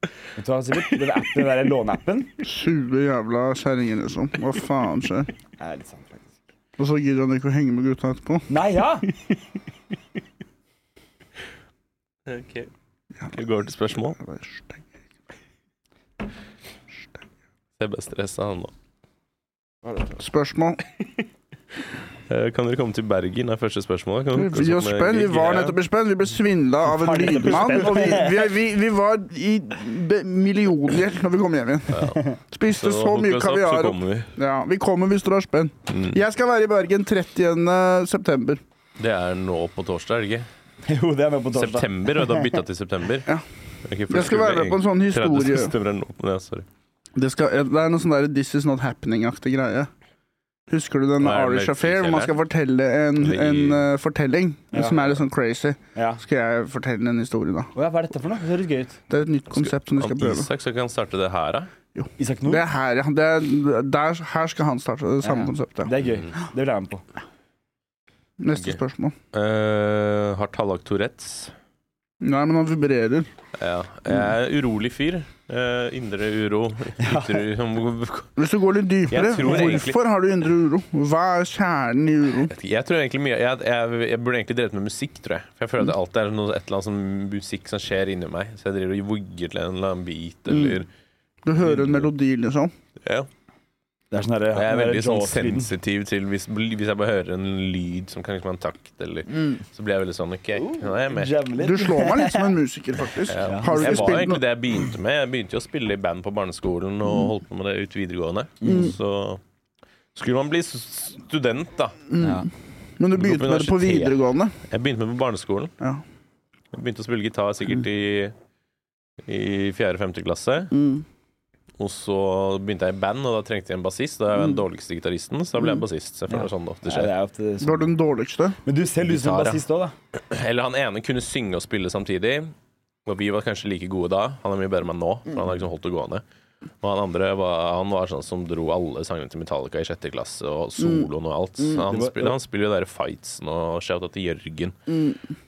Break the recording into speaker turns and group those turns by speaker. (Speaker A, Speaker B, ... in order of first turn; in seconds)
Speaker A: 0.4-2.3, 5.6-6.4, 8.5-9.1, 26.9-28.5, 32.0-32.4, 40.9-42.5, 54.7-55.1, 56.0-56.2, 57.8-59.0, 62.2-62.6, 65.2-67.0, 77.0-77.4, 94.1-95.7, 100.6-102.5, 103.4-104.3, 108.6-108.9, 112.2-112.5, 126.3-127.9, 128.7-129.9, 141.7-142.4
Speaker B: 0.9-1.2, 12.3-12.7, 13.3-14.2, 17.8-18.7, 22.3-25.8, 31.9-34.3, 35.9-36.2, 39.0-40.5, 41.5-43.3, 43.9-46.7, 51.2-52.3, 53.2-53.8, 59.5-61.7, 66.0-66.3, 69.3-71.5, 73.6-78.3, 79.1-80.0, 82.5-90.9, 91.6-92.1, 94.5-101.3, 103.3-109.4, 110.2-112.0, 113.2-114.2, 114.7-115.7, 116.7-118.3, 119.3-120.7, 121.8-127.1, 129.0-129.6, 130.2-132.5, 133.1-136.2, 136.8-144.8
Speaker C: 2.4-5.3, 6.8-8.5, 14.2-14.9, 20.2-20.8, 24.3-38.6, 44.1-45.7, 47.1-49.9, 50.7-57.7, 59.1-60.5, 62.0-65.9, 68.4-69.2, 72.2-73.3, 78.4-82.5, 90.5-90.8, 91.5-92.7, 101.6-104.4, 112.1-112.5, 113.0-114.6, 120.7-121.0, 127.6-128.6, 140.8-141.1, 144.9-145.2